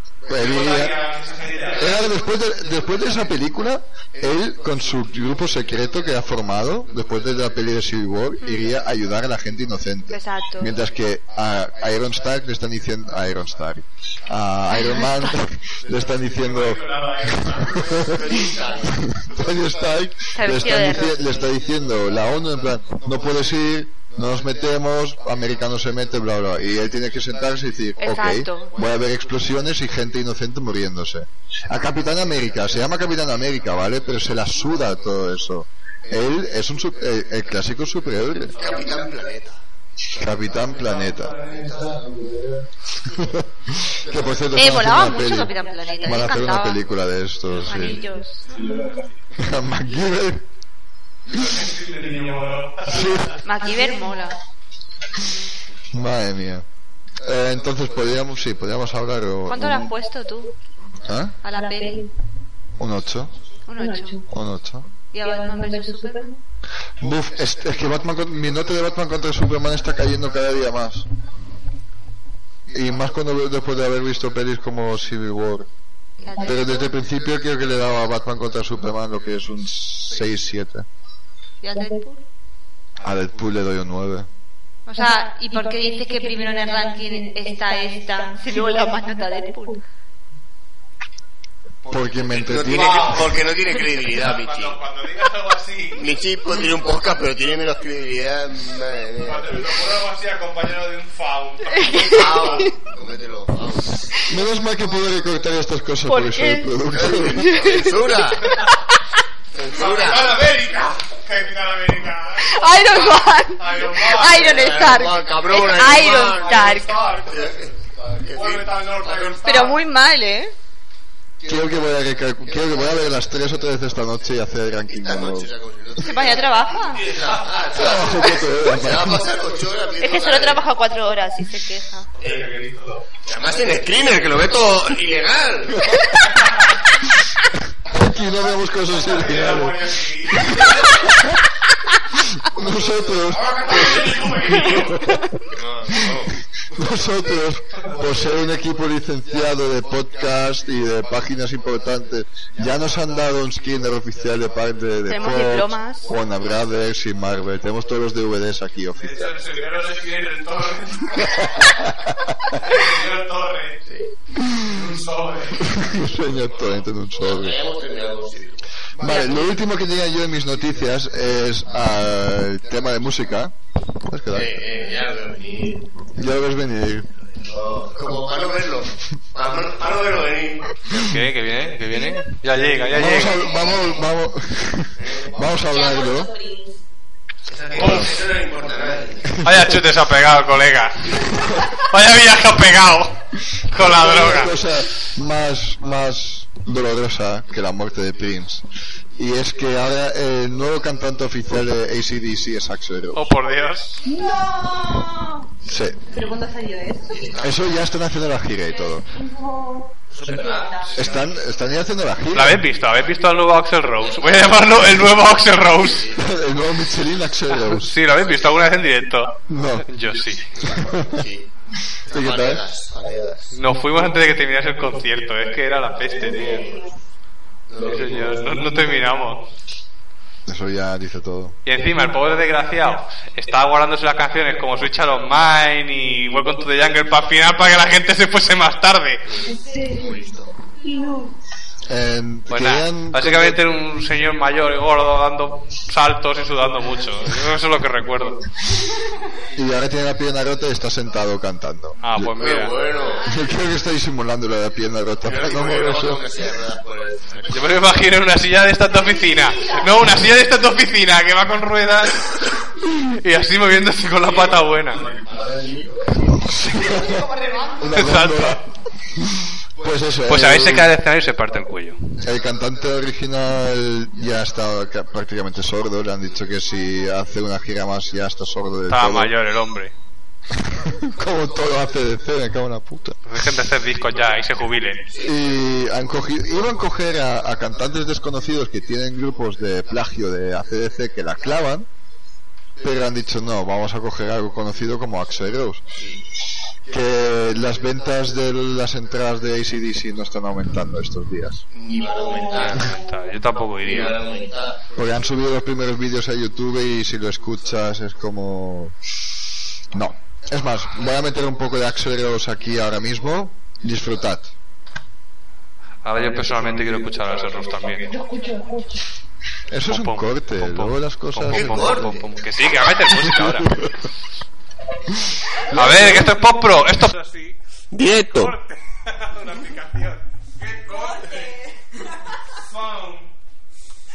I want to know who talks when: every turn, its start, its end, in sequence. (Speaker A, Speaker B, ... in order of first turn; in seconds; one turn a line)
Speaker A: 0.2-0.9
Speaker B: 0.3-2.0
Speaker A: 1.8-18.4
Speaker C: 8.4-8.8
Speaker C: 10.1-10.7
Speaker C: 14.7-15.4
Speaker B: 16.2-17.8
Speaker D: 17.8-19.0
Speaker A: 19.0-38.5
Speaker C: 20.3-21.4
Speaker C: 28.0-28.7
Speaker D: 38.5-39.6
Speaker A: 40.1-41.5
Speaker D: 41.3-42.0
Speaker A: 43.0-48.0
Speaker C: 44.5-46.8
Speaker C: 47.6-48.6
Speaker B: 48.5-49.0
Speaker A: 49.3-50.5
Speaker B: 51.3-53.3
Speaker A: 52.9-53.4
Speaker C: 53.4-54.4
Speaker E: 53.6-54.3
Speaker A: 55.9-56.6
Speaker A: 57.2-59.9
Speaker C: 59.5-60.5
Speaker A: 61.0-61.4
Speaker C: 61.4-62.0
Speaker E: 61.4-62.1
Speaker A: 62.8-63.4
Speaker C: 63.6-64.2
Speaker E: 63.8-64.2
Speaker A: 64.3-64.9
Speaker C: 65.1-66.3
Speaker E: 65.2-66.4
Speaker A: 67.0-71.1
Speaker A: 72.7-75.7
Speaker C: 76.2-76.9
Speaker E: 76.3-76.8
Speaker A: 76.4-80.9
Speaker C: 81.6-82.2
Speaker E: 81.7-82.1
Speaker A: 83.0-84.3
Speaker C: 84.9-89.8
Speaker E: 85.0-89.8
Speaker A: 91.9-93.3
Speaker D: 92.3-94.8
Speaker B: 92.4-93.4
Speaker B: 94.0-96.1
Speaker D: 96.0-99.7
Speaker B: 99.2-102.7
Speaker C: 101.7-102.7
Speaker D: 102.1-104.2
Speaker A: 104.3-107.6
Speaker C: 106.0-108.6
Speaker D: 106.9-108.6
Speaker B: 108.5-108.7
Speaker D: 109.5-110.4
Speaker B: 109.6-114.7
Speaker C: 112.4-116.9
Speaker D: 114.2-119.5
Speaker B: 115.6-117.5
Speaker B: 118.3-119.8
Speaker C: 119.4-120.5
Speaker A: 121.4-125.5
Speaker D: 122.5-123.0
Speaker D: 125.0-130.6
Speaker C: 126.0-127.0
Speaker B: 127.2-127.6
Speaker A: 127.7-129.3
Speaker C: 130.0-132.1
Speaker B: 132.2-133.0
Speaker D: 132.2-132.5
Speaker D: 133.2-135.8
Speaker B: 136.3-136.7
Speaker A: 137.8-141.4
Speaker B: 138.9-141.0
Speaker A: 142.3-145.4
Speaker B: 143.3-145.1
Speaker D: 145.5-146.3
Speaker A: 145.9-159.4
Speaker C: 155.1-156.1
Speaker B: 158.9-161.5
Speaker A: 161.4-162.3
Speaker B: 162.5-163.8
Speaker D: 163.8-164.1
Speaker A: 164.4-164.7
Speaker B: 164.6-165.9
Speaker A: 165.6-167.6
Speaker D: 166.5-168.7
Speaker A: 169.0-174.6
Speaker C: 169.0-169.4
Speaker D: 174.3-175.9
Speaker A: 176.1-177.1
Speaker D: 177.2-182.1
Speaker B: 180.9-183.5
Speaker A: 182.9-186.3
Speaker D: 185.0-185.5
Speaker E: 185.7-186.6
Speaker C: 186.2-186.7
Speaker D: 187.4-189.4
Speaker B: 187.8-188.1
Speaker A: 187.8-188.0
Speaker A: 189.4-189.8
Speaker B: 189.4-194.6
Speaker A: 193.7-203.3
Speaker B: 203.1-204.0
Speaker E: 204.0-205.5
Speaker A: 205.6-206.0
Speaker E: 206.1-207.3
Speaker D: 207.1-207.6
Speaker A: 207.4-209.0
Speaker E: 209.1-211.1
Speaker D: 210.1-211.2
Speaker A: 210.9-212.6
Speaker B: 212.3-216.1
Speaker D: 214.0-214.6
Speaker D: 215.7-216.3
Speaker A: 216.2-217.9
Speaker B: 217.6-220.5
Speaker A: 219.5-219.9
Speaker D: 220.5-221.5
Speaker A: 220.7-221.2
Speaker D: 222.1-223.5
Speaker A: 222.1-222.6
Speaker B: 223.5-226.8
Speaker D: 226.3-226.9
Speaker D: 227.7-228.6
Speaker B: 227.8-229.5
Speaker A: 230.5-231.6
Speaker B: 231.7-239.4
Speaker D: 239.2-240.5
Speaker E: 239.4-240.2
Speaker E: 240.7-241.3
Speaker A: 241.9-243.8
Speaker B: 242.5-248.4
Speaker A: 249.5-252.4
Speaker B: 252.0-252.8
Speaker D: 252.4-253.3
Speaker A: 253.2-256.3
Speaker D: 255.2-258.1
Speaker B: 257.5-262.2
Speaker E: 259.1-259.8
Speaker B: 263.0-265.1
Speaker D: 264.3-266.5
Speaker A: 266.4-268.6
Speaker E: 266.9-267.8
Speaker B: 267.9-268.6
Speaker A: 269.1-270.9
Speaker B: 270.3-272.1
Speaker A: 272.2-279.3
Speaker B: 278.9-279.9
Speaker A: 280.6-283.2
Speaker B: 283.3-285.1
Speaker D: 285.1-285.4
Speaker A: 285.2-291.9
Speaker A: 292.8-295.8
Speaker D: 295.9-296.2
Speaker A: 296.9-301.6
Speaker D: 301.7-302.9
Speaker E: 301.9-303.1
Speaker B: 302.4-304.2
Speaker D: 303.8-304.8
Speaker A: 304.9-309.0
Speaker A: 309.9-314.5
Speaker B: 316.0-318.2
Speaker E: 318.0-319.0
Speaker A: 319.7-322.3
Speaker B: 319.7-323.8
Speaker D: 321.5-322.3
Speaker A: 323.1-323.9
Speaker A: 325.6-326.4
Speaker B: 325.7-327.6
Speaker D: 327.9-328.5
Speaker B: 328.1-331.5
Speaker B: 332.5-333.3